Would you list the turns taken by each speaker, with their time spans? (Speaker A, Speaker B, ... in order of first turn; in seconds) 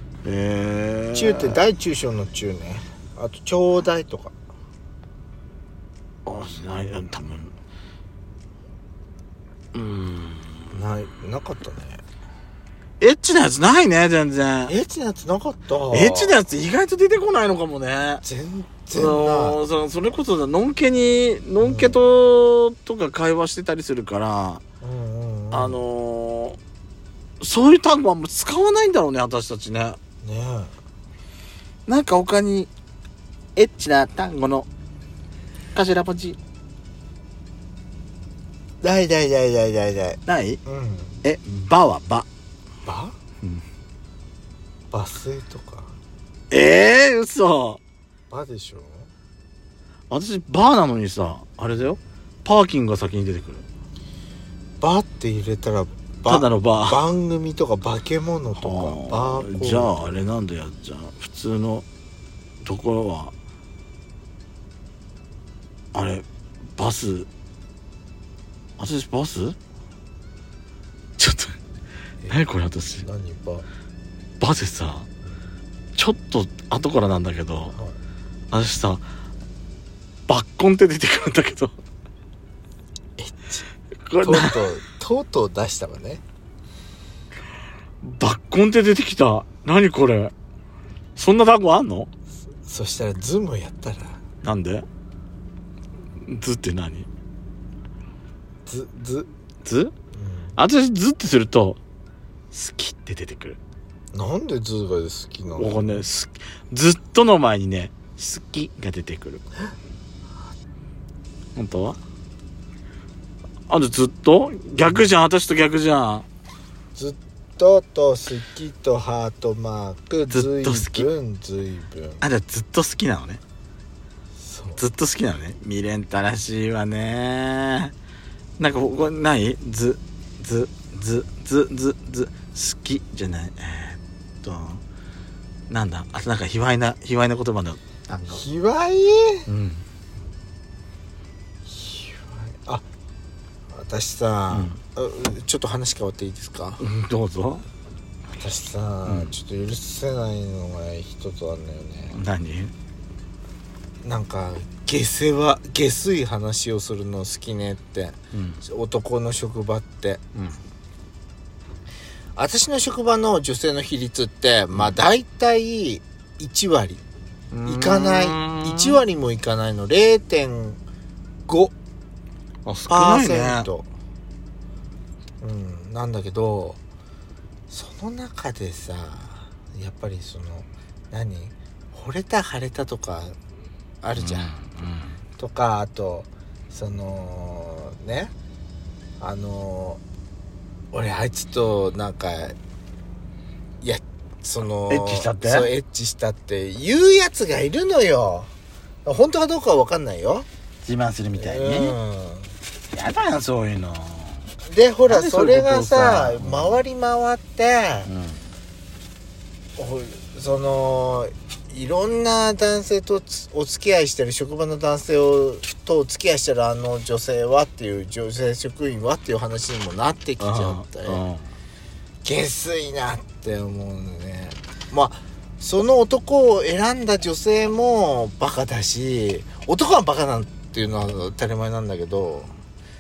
Speaker A: 0.2-1.6, 6.3-7.5, 9.7-10.8, 13.0-14.7, 15.9-18.2, 18.9-24.6, 25.5-26.6, 27.4-30.0, 31.9-32.7, 33.6-34.7, 35.8-36.4, 40.3-40.6, 41.2-42.3, 46.5-47.8, 50.1-53.7, 56.3-57.0, 58.6-61.9, 62.6-63.3, 65.9-66.2, 66.8-67.3, 68.8-69.6, 71.2-71.6, 72.3-73.1, 74.4-75.1, 76.0-77.8, 78.5-79.0, 80.3-81.7, 84.1-84.6, 88.0-90.3, 91.2-92.1, 94.4-94.8, 96.2-97.1, 99.7-99.9, 100.6-101.8, 102.5-103.6, 105.6-109.4, 111.6-112.0, 113.7-116.3, 120.3-121.1, 122.2-123.4, 124.8-127.9, 128.6-134.8, 135.7-138.4, 139.5-139.8, 144.5-144.8, 146.8-147.6, 149.1-149.3, 152.1-152.7, 158.3-158.6, 160.3-160.6, 167.5-169.0, 172.7-173.7, 184.2-185.2, 194.9-195.7, 200.8-201.9, 202.9-204.5, 205.1-206.8, 208.1-208.4, 220.4-221.5
Speaker B: 1.1-4.3, 10.7-12.0, 14.7-16.4, 18.2-19.6, 21.6-22.0, 24.8-25.8, 30.2-30.7, 38.8-41.2, 42.9-43.1, 44.9-46.0, 48.3-49.1, 54.8-60.2, 73.0-73.7, 83.2-83.7, 84.2-86.2, 92.6-94.2, 98.7-99.3, 100.1-100.5, 104.1-106.0, 117.0-122.2, 124.4-124.8, 138.3-139.5, 141.7-142.8, 143.7-146.8, 148.3-152.2, 154.0-160.2, 162.4-167.0, 167.7-170.8, 171.5-171.7, 172.9-173.9, 175.4-176.8, 177.7-183.4, 184.0-184.5, 185.4-188.3, 189.2-190.0, 190.9-192.6, 193.8-198.5, 199.1-200.5, 201.3-202.5, 204.7-208.1, 209.8-221.2, 222.2-232.5